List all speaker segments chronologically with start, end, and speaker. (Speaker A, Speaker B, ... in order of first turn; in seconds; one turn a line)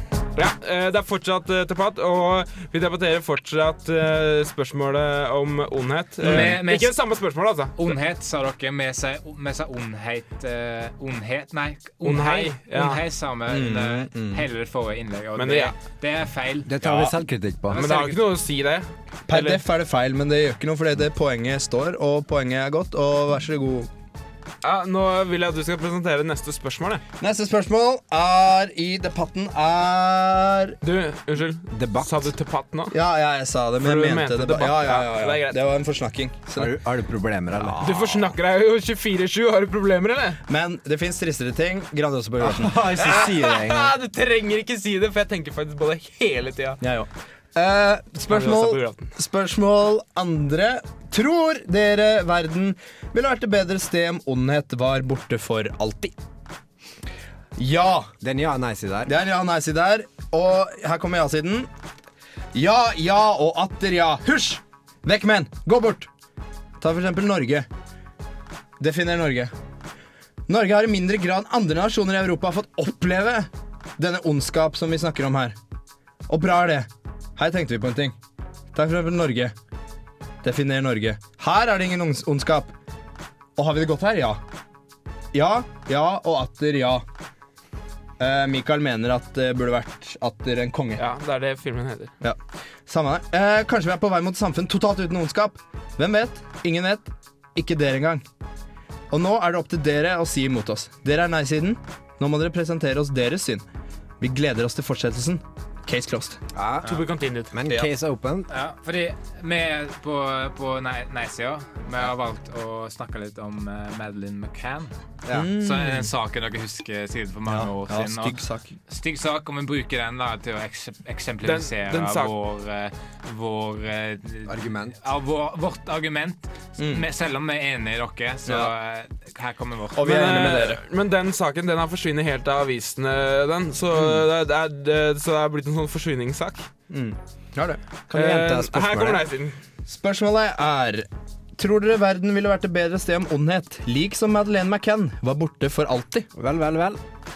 Speaker A: 0.3-7.9
Speaker B: 6.2-6.6
Speaker C: 6.2-6.9
Speaker C: 7.8-17.1
Speaker A: 12.0-13.0
Speaker B: 13.5-14.4
Speaker A: 15.4-15.8
Speaker D: 16.6-17.8
Speaker C: 17.7-18.2
Speaker A: 17.7-19.6
Speaker B: 19.3-23.9
Speaker A: 24.6-27.0
Speaker B: 27.2-30.8
Speaker A: 30.8-32.9
Speaker D: 31.7-32.3
Speaker B: 32.9-36.8
Speaker A: 33.8-35.6
Speaker D: 36.6-37.8
Speaker B: 37.5-38.4
Speaker A: 37.8-40.4
Speaker B: 40.5-43.1
Speaker D: 42.4-43.9
Speaker A: 43.0-46.8
Speaker B: 46.8-56.1
Speaker A: 48.3-49.1
Speaker B: 57.6-58.1
Speaker D: 58.2-59.1
Speaker B: 59.1-61.7
Speaker B: 62.5-66.1
Speaker B: 66.8-67.7
Speaker B: 68.8-69.5
Speaker B: 70.5-75.6
Speaker B: 76.3-78.2
Speaker B: 78.7-79.5
Speaker B: 80.4-82.7
Speaker B: 83.6-84.4
Speaker B: 85.3-87.0
Speaker B: 88.2-91.0
Speaker A: 91.0-92.1
Speaker B: 92.2-98.2
Speaker B: 99.1-103.6
Speaker B: 104.2-106.4
Speaker D: 106.5-107.0
Speaker A: 106.8-107.5
Speaker D: 107.5-108.5
Speaker C: 108.5-114.9
Speaker D: 115.3-115.5
Speaker B: 115.3-116.1
Speaker C: 115.5-130.3
Speaker B: 117.5-118.7
Speaker A: 121.4-122.3
Speaker D: 124.5-125.0
Speaker B: 126.8-127.1
Speaker B: 128.4-128.7
Speaker B: 129.9-130.8
Speaker A: 130.0-136.7
Speaker B: 133.9-134.2
Speaker B: 136.9-137.8
Speaker D: 138.1-139.2
Speaker A: 138.1-139.6
Speaker B: 139.9-146.3
Speaker D: 146.4-147.0